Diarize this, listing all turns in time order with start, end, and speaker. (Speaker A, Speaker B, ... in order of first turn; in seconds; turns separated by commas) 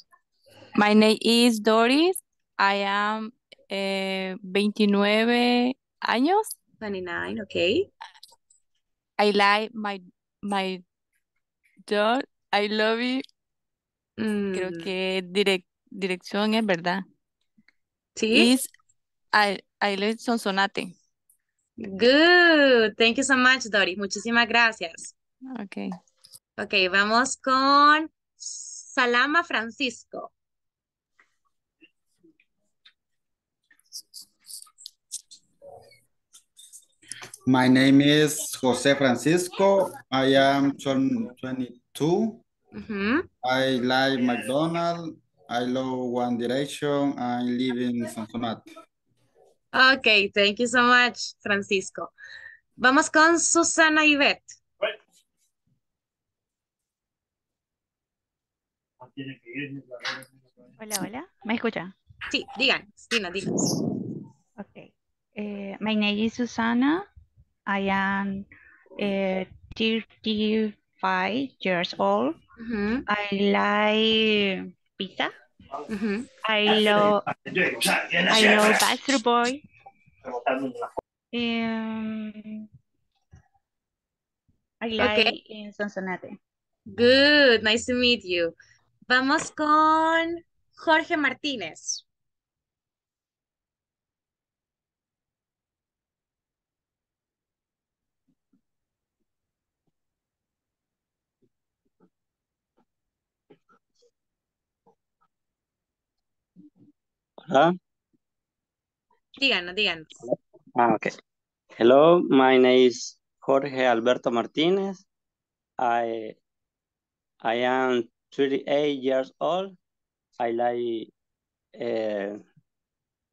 Speaker A: 0.8-6.5, Speaker B: 6.8-7.9, Speaker A: 9.2-10.8, Speaker A: 11.9-13.2, Speaker B: 14.2-14.9, Speaker A: 14.5-17.0, Speaker B: 18.1-18.5, Speaker A: 18.3-18.7, Speaker A: 19.3-20.9, Speaker B: 21.8-25.1, Speaker A: 25.5-26.0, Speaker B: 26.6-30.3, Speaker C: 37.5-42.4, Speaker B: 42.7-43.3, Speaker C: 43.4-48.6, Speaker B: 49.7-52.1, Speaker B: 52.8-54.6, Speaker D: 60.8-61.9, Speaker B: 62.3-63.5, Speaker D: 64.6-67.1, Speaker D: 67.7-68.5, Speaker D: 69.0-72.4, Speaker B: 72.6-73.0, Speaker D: 73.1-75.3, Speaker B: 75.9-76.2, Speaker D: 76.4-77.2, Speaker D: 78.2-79.6, Speaker D: 81.3-82.7, Speaker D: 84.8-86.4, Speaker B: 85.0-85.3, Speaker B: 86.9-88.5, Speaker B: 89.1-92.0, Speaker E: 107.4-107.7, Speaker B: 109.4-110.1, Speaker E: 110.2-111.1, Speaker E: 111.8-115.0, Speaker E: 115.8-116.4, Speaker E: 117.4-119.8, Speaker E: 120.4-121.1, Speaker E: 121.8-122.4